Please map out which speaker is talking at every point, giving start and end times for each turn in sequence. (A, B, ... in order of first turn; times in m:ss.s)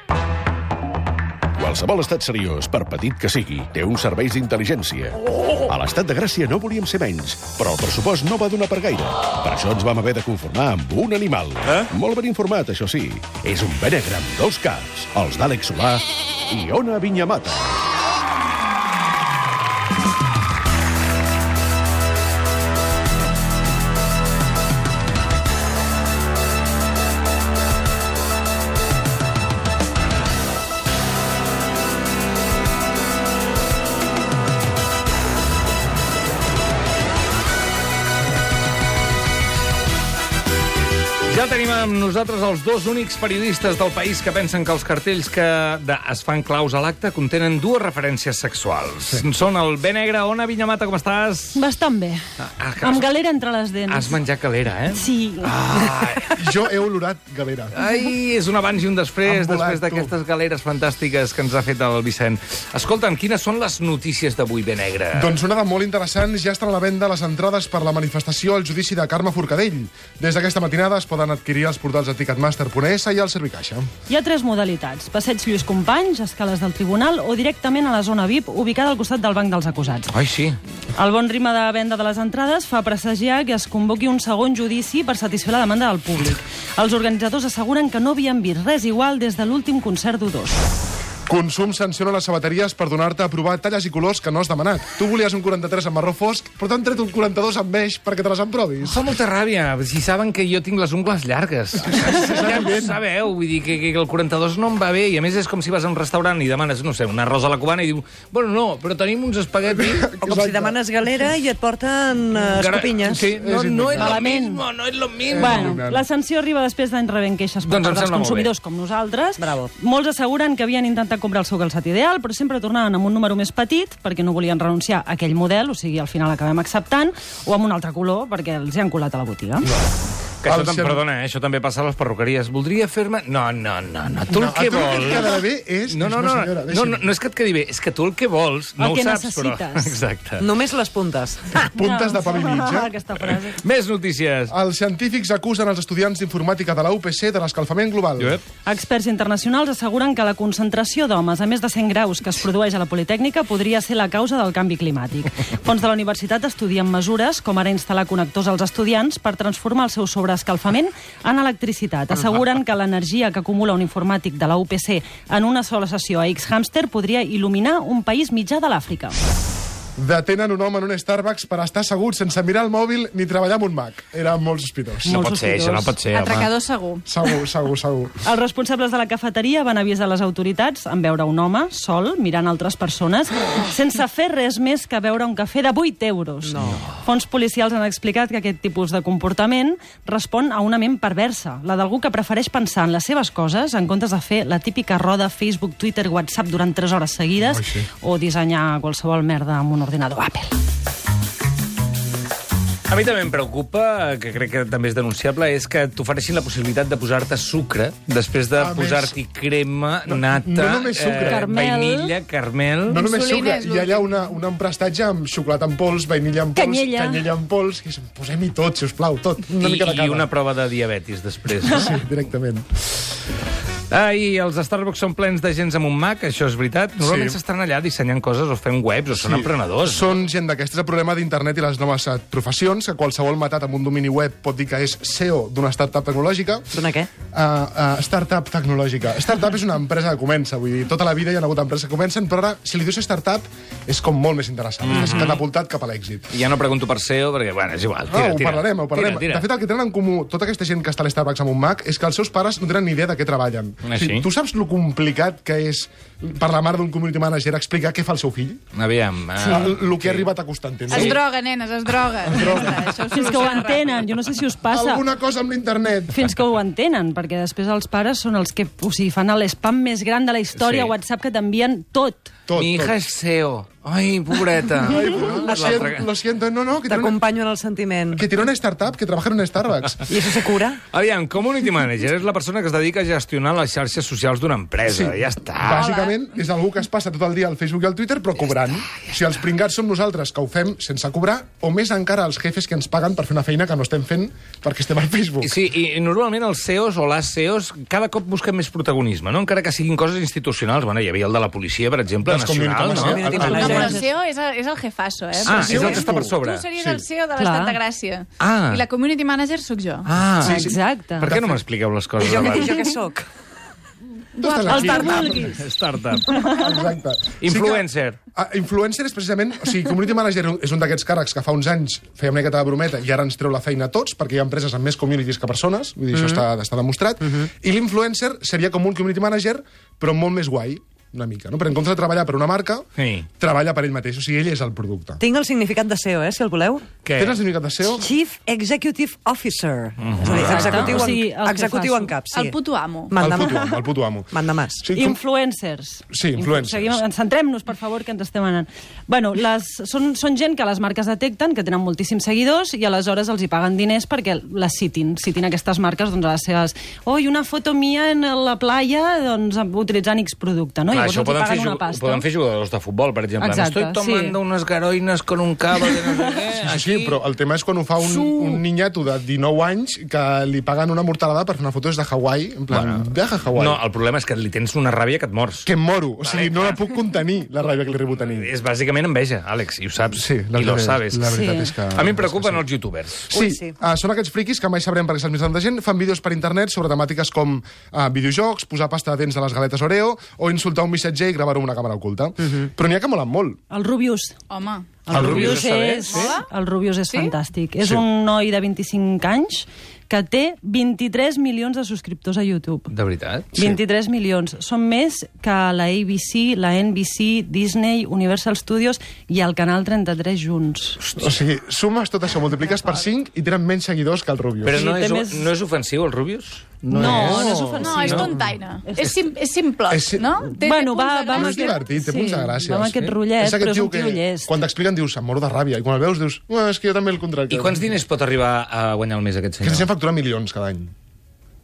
0:01.6-0:17.7 A
0:41.3-0:51.6 B
0:51.6-0:52.2 C
0:52.4-0:53.1 B
0:52.8-0:54.2 C
0:53.9-0:56.4 B
0:54.9-0:55.5 C
0:56.3-0:57.8 D
0:57.7-1:05.3 B
0:59.2-1:00.1 D
1:05.1-1:13.9 D
1:14.1-1:20.1 C
1:20.1-1:20.6 B
1:21.0-1:30.6 C
1:31.3-1:39.1 D
1:38.8-1:50.2 B
1:41.8-1:43.0 D
1:49.8-1:50.8 D
1:50.2-1:53.2 E
1:52.5-1:55.8 B
1:53.0-1:54.2 D
1:53.9-1:54.6 C
1:55.3-1:56.0 D
1:55.4-2:09.7 C
1:57.6-1:58.5 B
1:59.4-1:59.7 E
2:09.6-2:09.9 D
2:10.4-2:20.5 B
2:10.4-2:11.0 D
2:14.3-2:17.1 D
2:18.8-2:20.0 C
2:20.4-2:21.5 E
2:21.5-2:22.9 D
2:21.7-2:23.6 C
2:23.6-2:24.5 B
2:24.5-2:28.4 D
2:28.2-2:28.4 B
2:28.6-2:49.2 C
2:50.0-2:55.2 D
2:55.0-2:56.5 B
2:55.1-2:56.0 C
2:56.1-2:57.1 F
2:57.1-2:58.2 D
2:58.2-3:20.5 C
3:06.4-3:06.8 E
3:06.6-3:06.9 B
3:17.4-3:17.9 D
3:22.9-3:33.1 B
3:28.6-3:29.2 D
3:30.1-3:31.5 D
3:31.2-3:32.1 C
3:32.9-3:40.3 D
3:33.1-3:34.1 F
3:36.6-3:37.3 C
3:39.6-3:41.9 B
3:41.6-3:42.7 D
3:43.9-3:50.1 B
3:47.0-3:47.4 D
3:49.2-3:56.7 D
3:56.7-3:57.1 E
3:57.3-4:06.4 D
4:04.8-4:05.4 B
4:06.3-4:09.5 B
4:08.1-4:18.6 D
4:13.8-4:14.2 B
4:18.7-4:20.3 B
4:19.4-4:21.2 D
4:20.9-4:23.9 F
4:20.9-4:21.2 B
4:22.3-4:22.8 D
4:23.1-4:25.0 C
4:24.7-4:26.3 D
4:26.1-4:32.3 C
4:30.6-4:30.9 B
4:32.5-4:33.0 D
4:32.6-4:36.1 B
4:34.8-4:37.2 D
4:35.5-4:35.7 E
4:36.9-4:38.2 E
4:38.2-4:40.1 D
4:40.1-4:40.8 E
4:40.9-4:45.9 B
4:44.9-4:55.6 D
4:45.8-4:46.1 C
4:48.5-4:49.3 B
4:55.4-5:03.9 B
5:02.2-5:04.0 D
5:03.0-5:04.0 E
5:03.4-5:10.1 F
5:05.5-5:06.7 B
5:05.5-5:07.0 D
5:07.4-5:07.8 C
5:08.4-5:08.9 B
5:10.0-5:10.7 B
5:10.4-5:11.6 D
5:10.4-5:11.3 C
5:11.2-5:12.9 B
5:12.2-5:13.3 E
5:14.4-5:15.6 D
5:14.4-5:15.4 F
5:14.7-5:15.6 C
5:15.4-5:16.3 B
5:16.4-5:32.9 D
5:17.4-5:18.2 B
5:33.0-5:33.3 B
5:33.4-5:35.2 D
5:35.2-5:36.9 E
5:37.0-5:37.4 B
5:37.2-5:38.1 D
5:37.8-5:43.8 E
5:40.0-5:41.0 B
5:40.2-5:41.0 D
5:40.3-5:42.2 C
5:42.3-5:43.2 F
5:43.2-5:45.2 D
5:44.3-5:44.8 E
5:44.9-6:02.2 C
5:46.1-5:47.0 D
6:00.9-6:07.2 B
6:03.4-6:04.4 C
6:06.6-6:13.8 D
6:08.0-6:08.6 B
6:12.7-6:15.7 B
6:15.6-6:18.5 D
6:16.2-6:16.8 B
6:18.1-6:21.4 B
6:20.2-6:22.7 D
6:21.3-6:21.7 C
6:21.9-6:23.3 B
6:23.3-6:33.6 D
6:23.3-6:23.7 E
6:33.7-6:34.4 C
6:34.5-6:35.0 F
6:35.0-6:42.9 C
6:35.1-6:35.6 D
6:35.1-6:36.4 B
6:36.1-6:36.5 F
6:37.1-6:37.3 F
6:42.9-6:43.5 B
6:43.6-6:51.0 C
6:51.0-6:51.4 B
6:51.2-6:54.8 D
6:54.6-6:58.3 B
6:54.7-6:55.5 C
6:56.9-6:57.5 D
6:56.9-6:58.3 C
6:57.4-7:01.8 F
6:58.9-6:59.2 C
6:59.9-7:00.4 D
7:00.5-7:04.6 C
7:01.3-7:07.8 D
7:07.5-7:09.9 B
7:09.6-7:10.9 D